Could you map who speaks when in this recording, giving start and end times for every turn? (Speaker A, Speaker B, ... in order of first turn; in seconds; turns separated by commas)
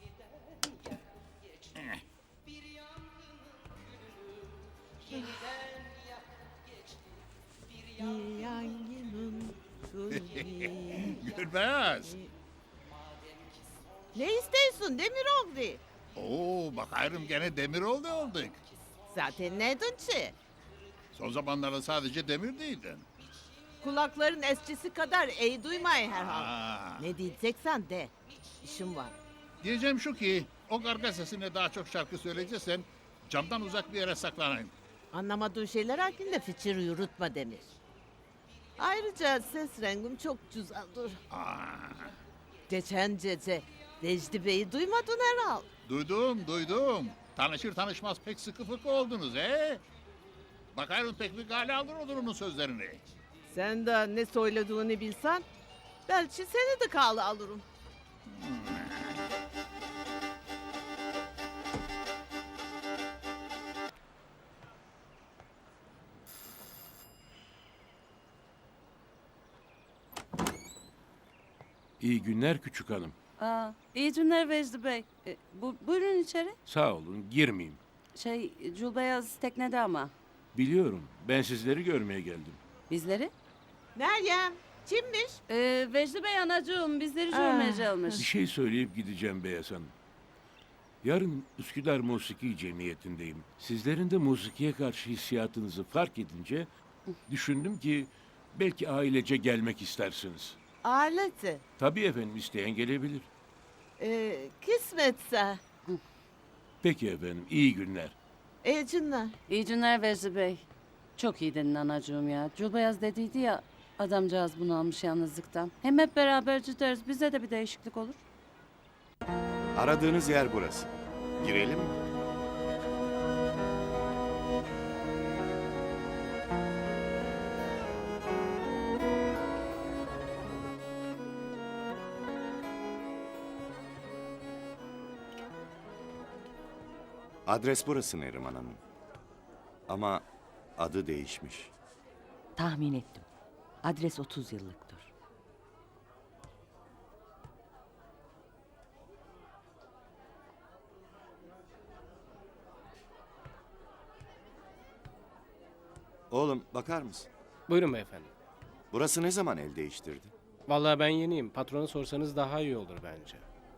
Speaker A: 5.1-5.7, Speaker A: 8.0-11.1, Speaker B: 10.1-12.2, Speaker A: 14.1-15.8, Speaker B: 16.2-18.6, Speaker A: 19.1-20.3, Speaker B: 21.1-23.1, Speaker A: 23.8-28.1, Speaker B: 26.1-27.2, Speaker A: 28.6-29.2, Speaker B: 29.6-34.7, Speaker A: 35.1-37.7, Speaker A: 38.8-41.2, Speaker B: 41.3-42.1, Speaker A: 42.7-45.7, Speaker B: 45.9-49.8, Speaker B: 50.7-53.0, Speaker A: 53.5-55.5, Speaker A: 56.1-57.6, Speaker B: 58.3-59.1, Speaker C: 72.0-73.2, Speaker D: 73.4-76.6, Speaker C: 76.7-77.8, Speaker D: 78.2-80.1, Speaker C: 80.5-82.6, Speaker D: 82.9-83.3, Speaker A: 84.0-85.4, Speaker D: 85.5-88.2, Speaker A: 87.3-88.1, Speaker C: 88.2-89.9, Speaker C: 91.0-96.7, Speaker C: 97.3-100.6, Speaker A: 100.8-101.6, Speaker C: 101.8-103.3, Speaker A: 104.0-105.6, Speaker C: 106.8-108.2, Speaker A: 108.6-109.3, Speaker D: 109.5-110.7, Speaker D: 111.2-118.2, Speaker E: 119.8-122.0, Speaker E: 137.5-138.8, Speaker E: 139.9-140.2, Speaker E: 140.8-141.7, Speaker F: 142.6-143.3, Speaker F: 143.8-145.1, Speaker E: 156.3-157.3, Speaker G: 157.7-158.3, Speaker E: 158.9-160.3, Speaker G: 160.7-163.4